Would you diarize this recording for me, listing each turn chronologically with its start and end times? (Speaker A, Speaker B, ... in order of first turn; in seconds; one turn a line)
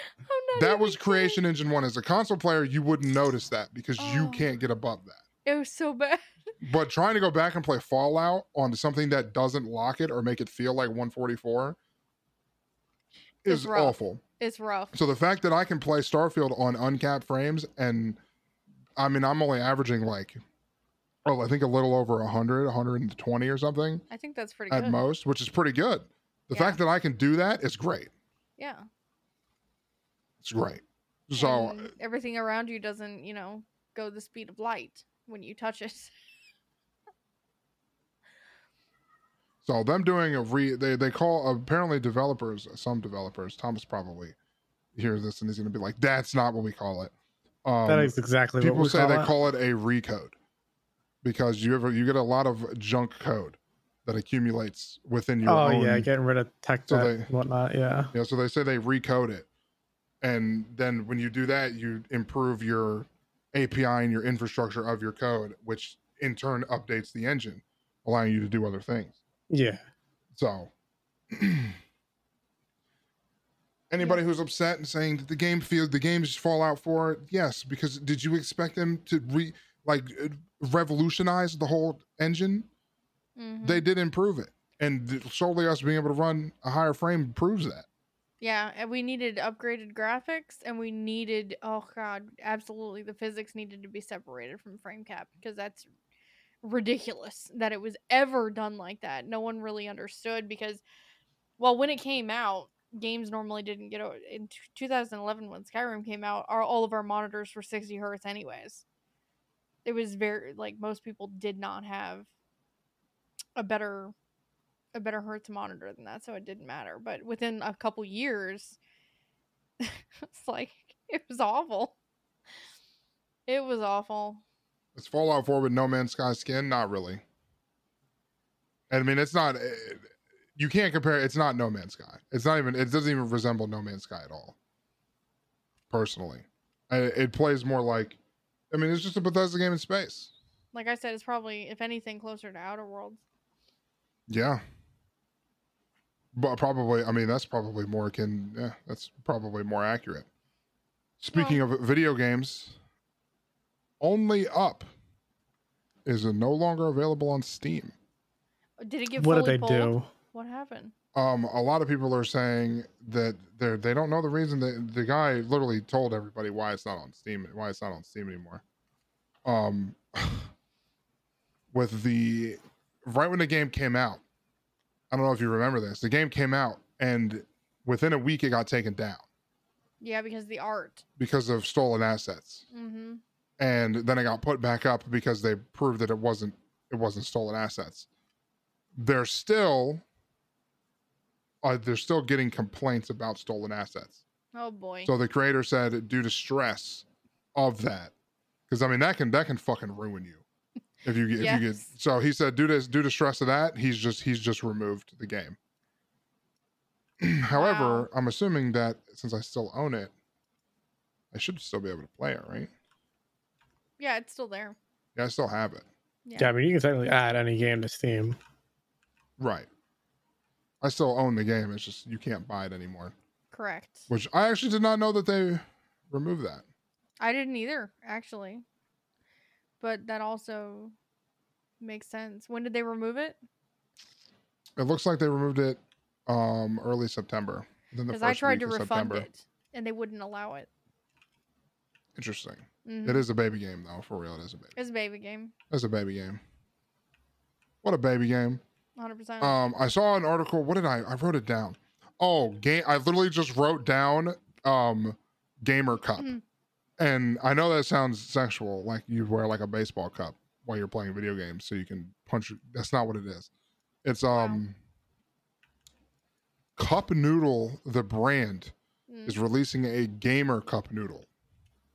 Speaker A: 0.2-1.4
Speaker B: 0.6-5.2
Speaker A: 4.0-4.6
Speaker A: 5.5-6.2
Speaker B: 6.6-11.8
Speaker B: 13.4-14.2
Speaker A: 13.5-14.9
Speaker B: 14.9-18.2
Speaker B: 19.0-20.4
Speaker B: 21.2-24.1
Speaker A: 24.1-25.0
Speaker B: 24.7-28.1
Speaker A: 26.5-26.8
Speaker A: 28.6-28.9
Speaker B: 30.4-31.9
Speaker A: 31.4-36.1
Speaker B: 39.6-44.4
Speaker B: 45.0-47.1
Speaker B: 47.6-50.4
Speaker C: 47.9-49.3
Speaker B: 51.2-56.1
Speaker C: 55.5-58.1
Speaker B: 56.9-57.3
Speaker B: 58.1-59.5
Speaker B: 60.2-69.2
Speaker C: 69.5-69.8
Speaker B: 70.3-70.7
Speaker B: 71.3-71.8
Speaker B: 73.9-82.7
Speaker A: 83.4-83.8
Speaker B: 83.6-87.9
Speaker A: 88.4-95.9
Speaker A: 96.6-100.8
Speaker A: 101.6-108.8
Speaker A: 109.8-112.3
Speaker A: 113.6-114.1
Speaker A: 114.9-118.8
Speaker A: 119.8-122.0
Speaker A: 123.5-124.4
Speaker B: 125.0-127.2
Speaker B: 128.9-134.6
Speaker B: 135.9-138.2
Speaker B: 138.7-140.3
Speaker A: 140.7-143.2
Speaker B: 144.3-144.6
Speaker B: 146.3-150.3
Speaker B: 151.2-152.8
Speaker A: 151.3-151.6
Speaker B: 154.0-154.9
Speaker B: 156.1-157.9
Speaker A: 158.8-160.9
Speaker C: 159.2-160.1
Speaker B: 161.2-168.6
Speaker B: 169.4-170.5
Speaker B: 171.7-174.2
Speaker B: 175.1-179.2
Speaker A: 180.0-181.0
Speaker B: 181.2-182.7
Speaker A: 182.7-183.2
Speaker B: 183.6-188.1
Speaker B: 189.0-190.0
Speaker B: 191.6-194.2
Speaker A: 194.5-195.1
Speaker B: 195.1-198.1
Speaker B: 198.7-200.4
Speaker B: 201.0-205.6
Speaker A: 201.4-201.9
Speaker B: 207.2-210.1
Speaker A: 207.5-208.1
Speaker B: 211.3-212.7
Speaker A: 214.0-214.8
Speaker B: 215.2-215.9
Speaker A: 216.2-216.5
Speaker C: 216.4-218.4
Speaker B: 219.4-219.7
Speaker B: 220.8-223.1
Speaker A: 223.5-224.1
Speaker B: 224.1-226.6
Speaker A: 227.2-228.6
Speaker A: 229.8-230.9
Speaker A: 231.8-233.4
Speaker B: 234.8-239.3
Speaker A: 238.1-240.7
Speaker B: 242.2-244.7
Speaker A: 242.8-243.2
Speaker A: 244.8-245.5
Speaker B: 245.7-246.4
Speaker B: 247.8-248.6
Speaker A: 249.0-249.6
Speaker B: 249.4-256.3
Speaker A: 256.2-256.4
Speaker B: 257.0-263.5
Speaker B: 264.0-264.8
Speaker A: 264.3-264.6
Speaker B: 266.8-268.7
Speaker A: 269.1-269.4
Speaker B: 269.3-271.3